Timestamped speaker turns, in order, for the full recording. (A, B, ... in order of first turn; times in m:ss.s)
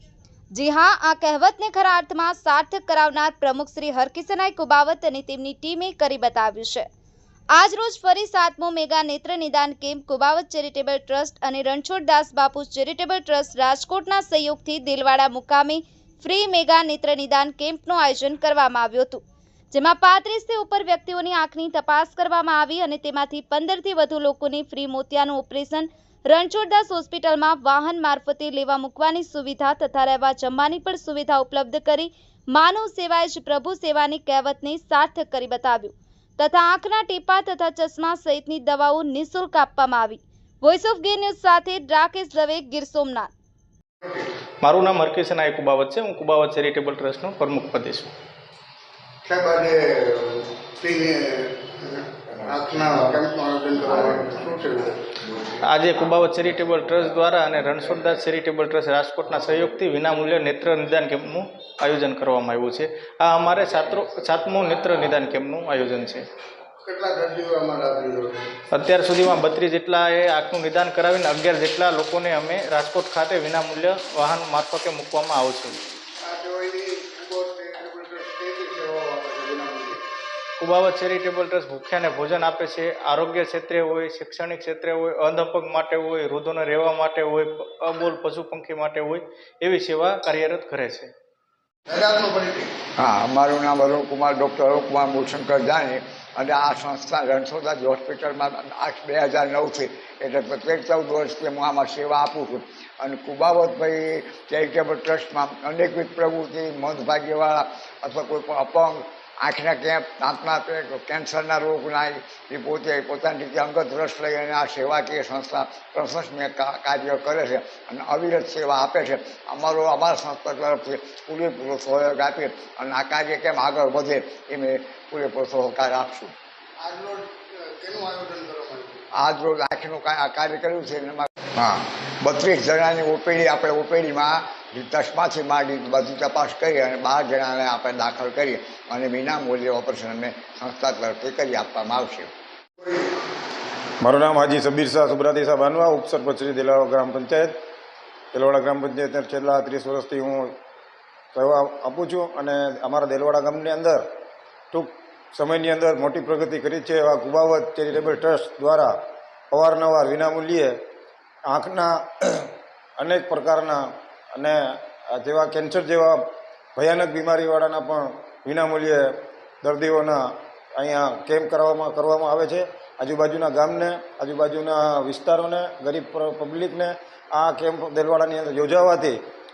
0:00.5-0:06.9 A
0:07.5-0:43.3 A
0:44.0-0:44.3 B
0:44.6-0:48.1 C
0:49.2-0:55.0 B
0:55.5-1:06.3 C
1:06.8-1:08.5 B
1:08.7-1:15.8 C
1:16.2-1:20.0 B
1:20.6-1:31.1 C
1:31.9-1:32.8 B
1:33.0-2:06.4 D
2:06.8-2:09.0 B
2:09.2-2:22.3 D
2:24.0-2:27.5 E
2:28.3-2:30.5 E
2:31.3-2:34.0 E
2:34.7-2:38.9 E
2:39.5-2:40.8 E
2:41.5-2:44.6 E
2:45.1-2:50.2 E
2:50.8-2:59.2 E